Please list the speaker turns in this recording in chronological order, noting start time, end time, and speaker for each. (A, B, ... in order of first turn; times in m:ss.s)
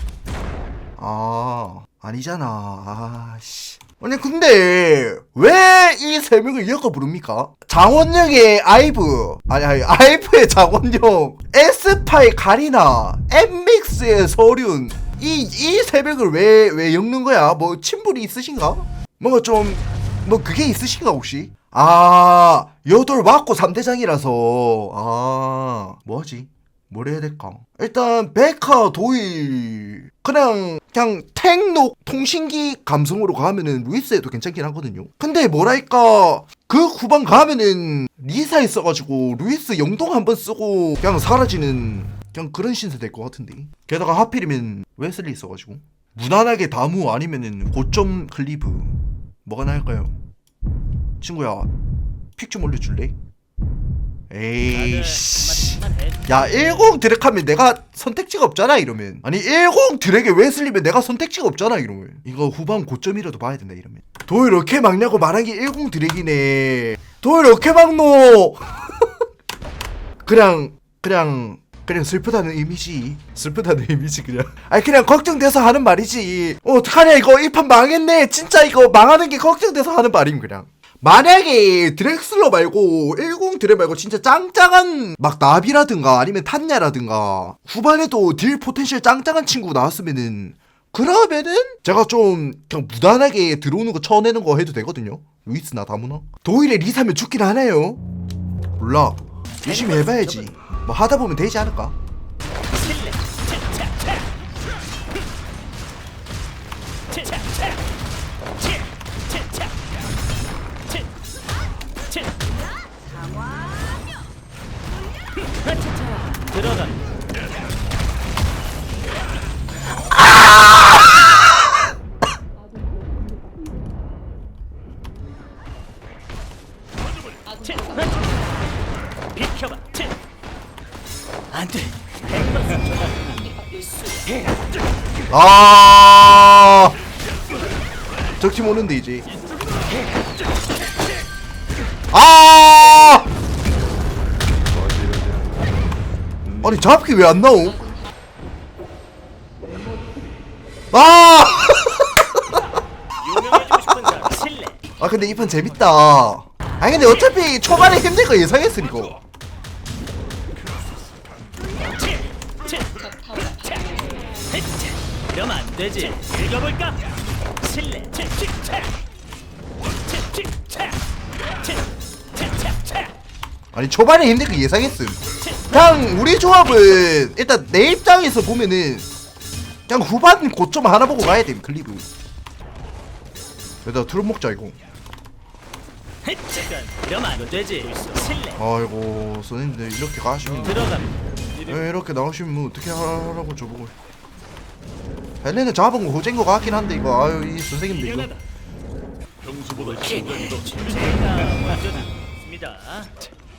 0:01.0-0:48.9 A
0:49.4-0:50.1 A
0:51.2-0:51.7 A
0:52.4-0:53.1 A
0:54.3-1:08.8 A
0:54.7-0:56.8 B
1:10.2-1:38.0 A
1:38.8-1:42.0 A
1:56.6-1:56.9 B
2:00.3-2:00.7 A
2:12.2-2:13.4 B
2:15.3-2:17.0 A
2:18.4-2:19.3 A
2:22.1-2:23.3 A
2:26.6-2:27.9 A
2:30.9-2:32.6 A
2:33.2-2:34.8 B
2:33.4-2:34.3 A
2:35.0-2:39.2 A
2:45.3-2:46.9 B
2:53.7-2:59.1 A
2:59.9-3:02.0 A
3:03.8-3:04.8 A
3:06.2-3:08.5 B
3:08.6-3:10.9 A
3:10.7-3:11.1 B
3:11.6-3:13.9 A
3:15.4-3:18.3 A
3:20.0-3:23.1 B